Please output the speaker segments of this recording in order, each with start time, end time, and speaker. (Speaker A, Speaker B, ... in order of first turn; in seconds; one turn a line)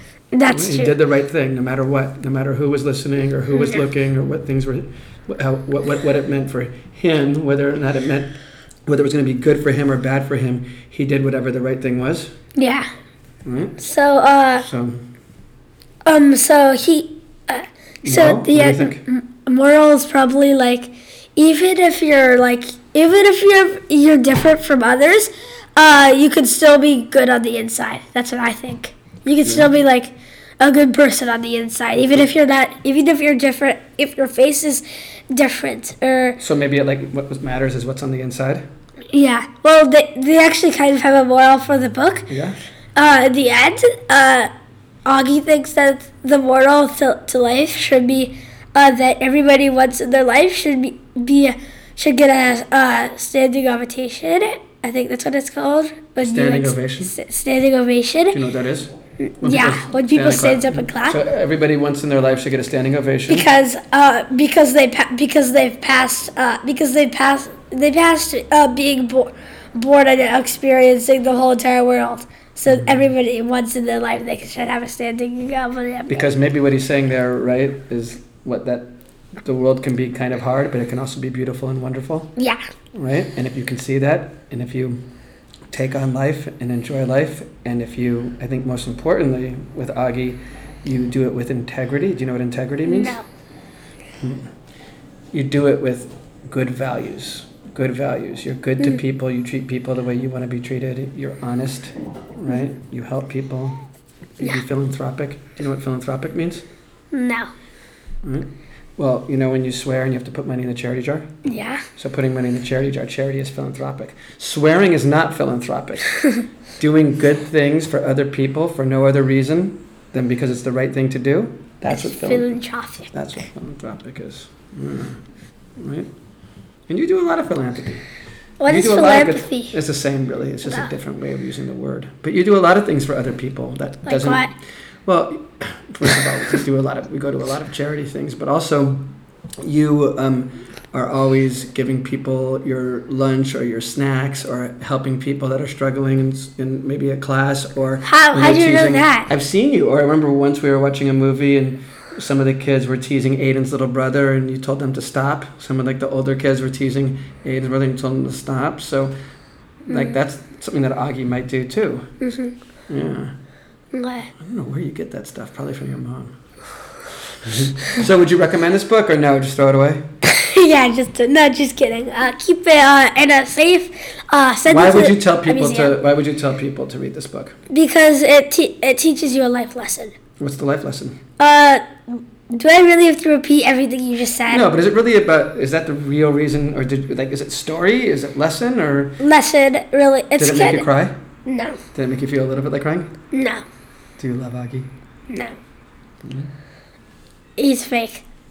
Speaker A: 0.3-0.9
Speaker B: 0.5-12.3
Speaker A: 3.5-3.8
Speaker A: 12.6-12.9
Speaker B: 13.4-13.8
Speaker A: 13.8-14.7
Speaker B: 14.6-15.0
Speaker A: 16.1-36.4
Speaker B: 18.0-19.1
Speaker B: 29.4-29.7
Speaker B: 36.4-38.6
Speaker A: 39.1-42.3
Speaker B: 42.3-42.6
Speaker A: 43.0-44.5
Speaker A: 45.1-58.4
Speaker B: 56.2-57.2
Speaker B: 58.3-63.5
Speaker A: 59.3-61.2
Speaker A: 63.3-76.4
Speaker B: 72.7-73.1
Speaker B: 76.1-82.3
Speaker A: 82.4-82.6
Speaker B: 83.0-85.0
Speaker B: 85.7-93.2
Speaker A: 92.8-93.3
Speaker B: 94.2-94.5
Speaker B: 95.3-103.8
Speaker B: 104.4-106.6
Speaker A: 107.1-107.5
Speaker B: 108.2-111.3
Speaker A: 111.5-111.8
Speaker B: 112.0-116.2
Speaker B: 116.8-122.5
Speaker A: 121.9-123.1
Speaker B: 123.1-125.2
Speaker B: 125.8-126.1
Speaker B: 126.9-128.1
Speaker A: 128.6-129.8
Speaker B: 128.7-134.5
Speaker A: 134.1-134.5
Speaker B: 135.1-159.1
Speaker A: 148.1-149.3
Speaker B: 159.9-162.1
Speaker A: 159.9-160.2
Speaker A: 162.2-162.6
Speaker B: 162.9-163.3
Speaker A: 163.9-164.3
Speaker B: 164.4-166.3
Speaker B: 167.4-170.0
Speaker A: 170.2-176.0
Speaker B: 174.7-177.6
Speaker A: 177.7-180.1
Speaker B: 180.4-181.2
Speaker A: 181.4-184.7
Speaker B: 184.5-189.2
Speaker A: 189.2-190.9
Speaker B: 190.4-191.2
Speaker A: 191.5-191.8
Speaker B: 191.9-193.1
Speaker A: 193.3-193.6
Speaker B: 194.2-194.9
Speaker A: 195.3-195.6
Speaker B: 196.2-196.5
Speaker A: 197.6-198.2